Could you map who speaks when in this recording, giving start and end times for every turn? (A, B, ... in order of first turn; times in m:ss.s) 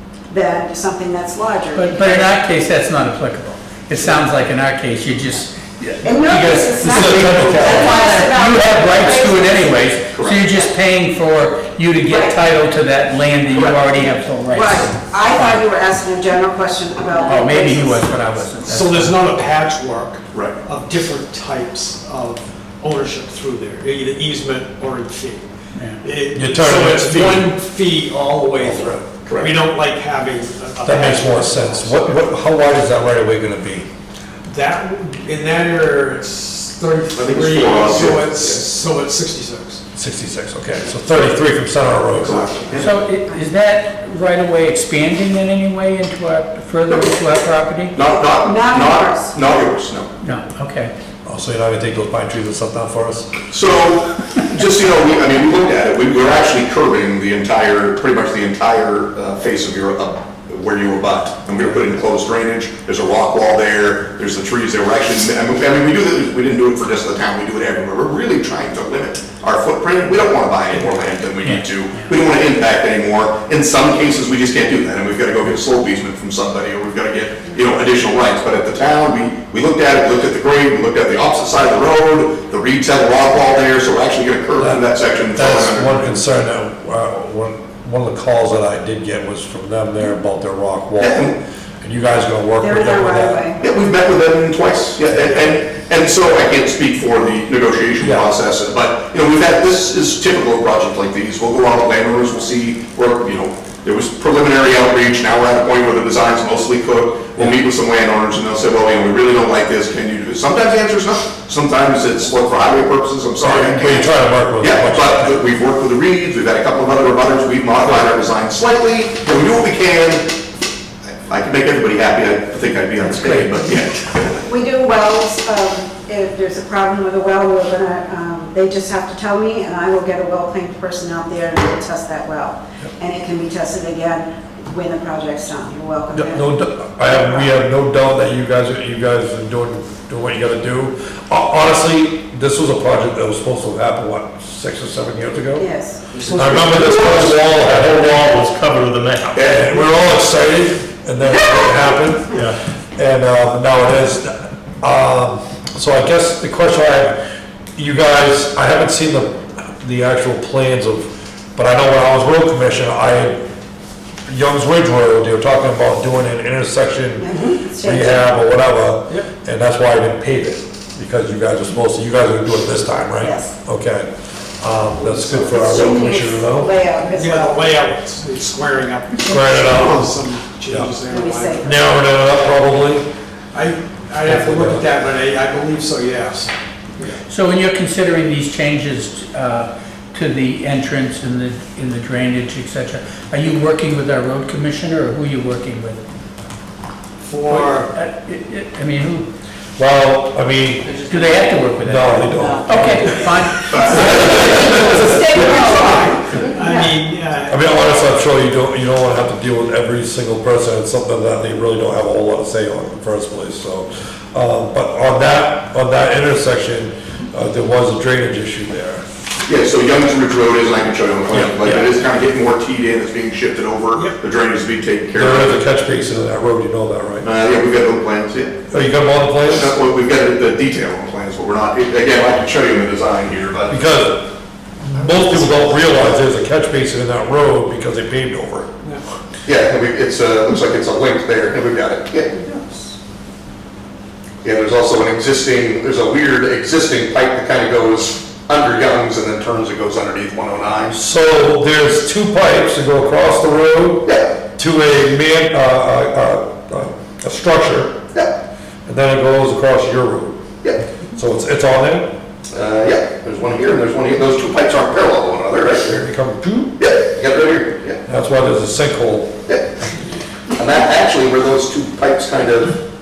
0:00.3-0:02.4 A
0:01.7-0:15.6 B
0:06.0-0:09.9 A
0:06.9-0:08.0 C
0:10.1-0:10.4 D
0:12.0-0:12.4 A
0:13.5-0:14.0 D
0:14.5-0:18.1 A
0:17.1-0:19.2 B
0:18.6-0:25.5 E
0:20.3-0:20.6 D
0:25.7-0:26.0 B
0:26.0-0:32.3 E
0:26.3-0:27.5 C
0:28.6-0:29.0 C
0:29.2-0:29.5 D
0:30.8-0:33.9 C
0:34.5-0:39.8 E
0:37.2-0:38.6 D
0:39.9-0:42.8 C
0:42.2-0:42.9 D
0:42.8-0:47.9 B
0:47.9-0:50.1 D
0:48.0-0:49.4 A
0:50.2-0:50.9 B
0:51.2-0:53.3 C
0:53.5-1:26.2 D
1:11.4-1:11.7 B
1:24.6-1:33.4 C
1:31.0-1:31.3 D
1:32.6-1:33.6 A
1:33.6-2:00.3 D
1:38.0-1:38.3 C
1:53.4-1:55.3 C
2:01.2-2:04.4 D
2:03.0-2:03.6 B
2:04.4-2:16.4 A
2:16.1-2:25.7 C
2:17.0-2:17.5 A
2:25.6-2:26.1 A
2:26.1-2:27.2 D
2:26.3-2:28.4 C
2:26.5-2:29.4 F
2:29.3-2:30.0 D
2:29.3-2:37.2 C
2:32.3-2:32.6 F
2:37.8-2:43.4 C
2:44.3-2:56.7 C
2:47.2-2:48.3 A
2:53.2-2:53.5 A
2:54.9-2:55.8 E
2:55.5-2:57.8 A
2:57.1-3:01.7 E
2:59.3-3:00.1 C
3:01.1-3:01.8 A
3:01.6-3:03.1 C
3:03.5-3:07.2 E
3:04.2-3:04.8 C
3:07.2-3:16.0 B
3:17.2-3:17.9 E
3:17.5-3:19.3 B
3:19.8-3:21.0 C
3:20.9-3:24.9 B
3:21.8-3:25.8 C
3:23.7-3:27.9 E
3:24.1-3:27.0 A
3:27.5-3:39.0 C
3:39.4-3:45.6 D
3:41.3-3:41.7 C
3:43.9-3:44.2 E
3:45.1-3:47.3 C
3:47.2-3:48.6 D
3:48.7-3:49.7 C
3:49.5-3:53.7 D
3:53.7-3:58.7 C
3:54.9-3:55.9 D
3:59.4-4:03.0 D
4:04.4-4:11.0 D
4:10.9-4:18.0 C
4:14.0-4:14.3 D
4:18.8-4:20.4 C
4:21.1-4:22.1 C
4:22.5-4:26.1 D
4:25.9-4:26.8 C
4:26.8-4:28.0 D
4:28.0-4:29.4 C
4:30.5-4:32.8 D